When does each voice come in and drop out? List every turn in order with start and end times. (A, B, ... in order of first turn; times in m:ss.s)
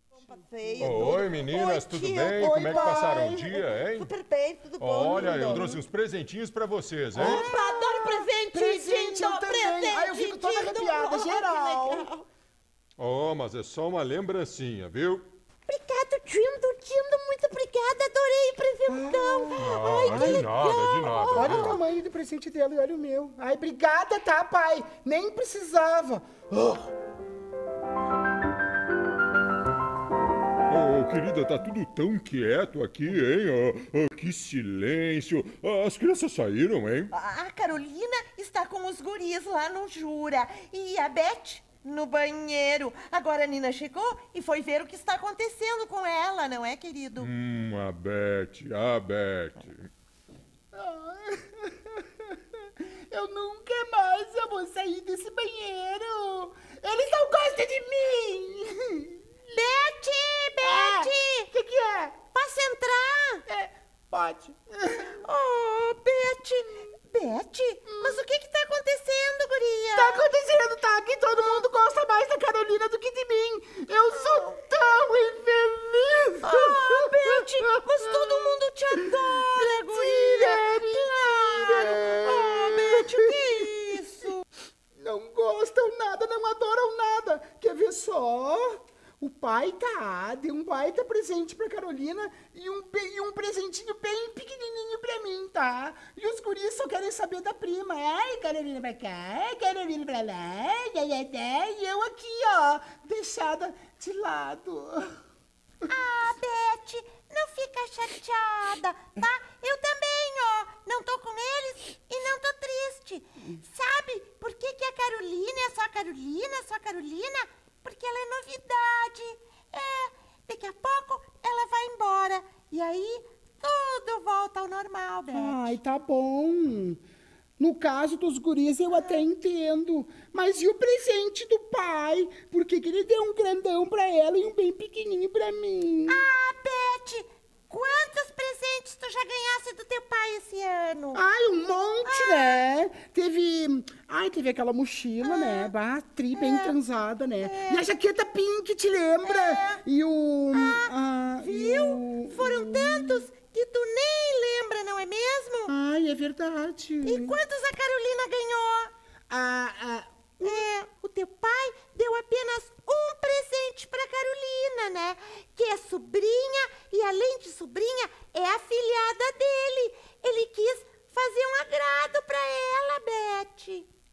0:00.1-0:05.8 A
0:00.8-0:04.1 B
0:02.4-0:03.5 C
0:04.8-0:07.4 B
0:07.1-0:12.1 C
0:07.2-0:12.3 A
0:13.0-0:15.3 B
0:15.7-0:21.8 A
0:18.9-0:20.5 C
0:19.6-0:21.7 B
0:21.3-0:26.9 C
0:30.7-0:37.1 B
0:37.1-0:47.3 A
0:47.2-0:49.9 B
0:50.7-0:59.6 C
0:59.5-1:01.5 A
1:00.6-1:02.2 C
1:02.3-1:03.4 A
1:03.5-1:05.2 C
1:05.2-1:10.3 A
1:07.9-1:08.2 C
1:10.0-1:18.5 C
1:14.1-1:14.6 A
1:16.4-1:24.4 A
1:19.0-1:23.1 C
1:25.0-1:45.1 C
1:45.9-2:05.8 A
2:05.3-2:07.0 C
2:07.6-2:16.2 C
2:08.9-2:09.2 A
2:16.1-2:21.2 A
2:21.1-2:33.2 C
2:22.0-2:22.6 A
2:25.2-2:25.7 A
2:26.3-2:26.8 A
2:27.4-2:27.8 A
2:29.2-2:29.8 A
2:30.5-2:35.7 A
2:35.7-2:37.4 C
2:37.0-2:38.9 A
2:39.3-2:40.6 C
2:40.4-2:53.9 A